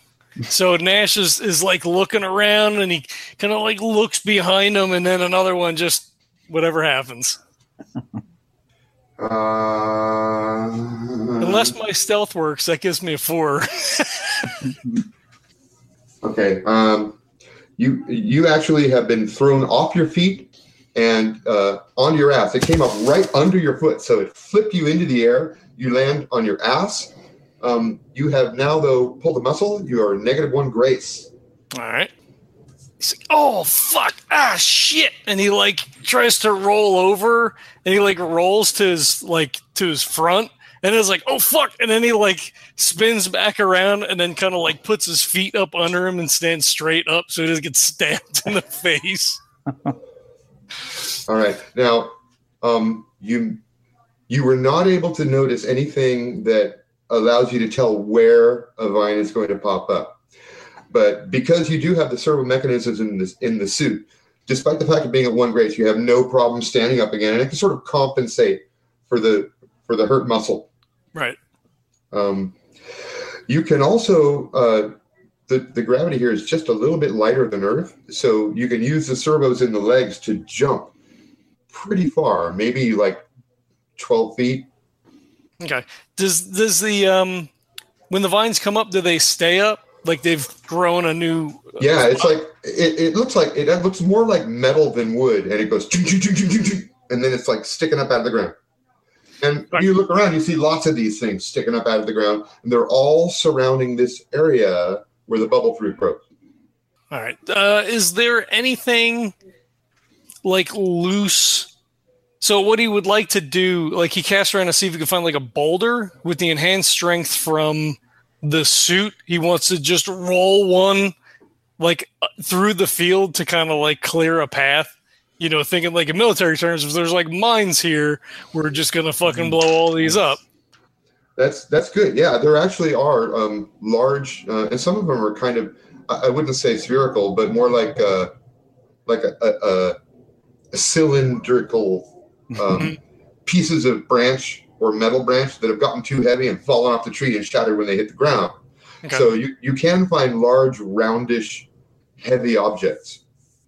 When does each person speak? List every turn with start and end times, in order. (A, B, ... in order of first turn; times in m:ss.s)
0:00.5-0:07.4 A
0:09.2-0:11.7 B
0:11.4-0:14.6 A
0:16.2-0:17.2 B
0:17.8-0:31.3 B
0:31.7-0:32.1 A
0:33.0-0:49.4 A
0:51.3-0:53.6 B
0:54.3-1:00.2 B
1:00.9-1:10.7 B
1:12.1-1:12.5 B
1:13.5-1:14.9 B
1:15.5-1:20.9 B
1:21.7-1:23.2 B
1:24.0-1:24.7 B
1:25.6-1:27.5 A
1:28.1-1:32.2 A
1:31.8-1:38.6 B
1:39.4-1:46.2 B
1:47.1-1:49.3 A
1:50.4-1:51.7 A
1:52.4-2:01.1 A
2:01.8-2:10.4 A
2:11.4-2:18.3 B
2:19.0-2:20.0 B
2:20.7-2:28.6 B
2:29.1-2:31.7 B
2:32.2-2:33.2 B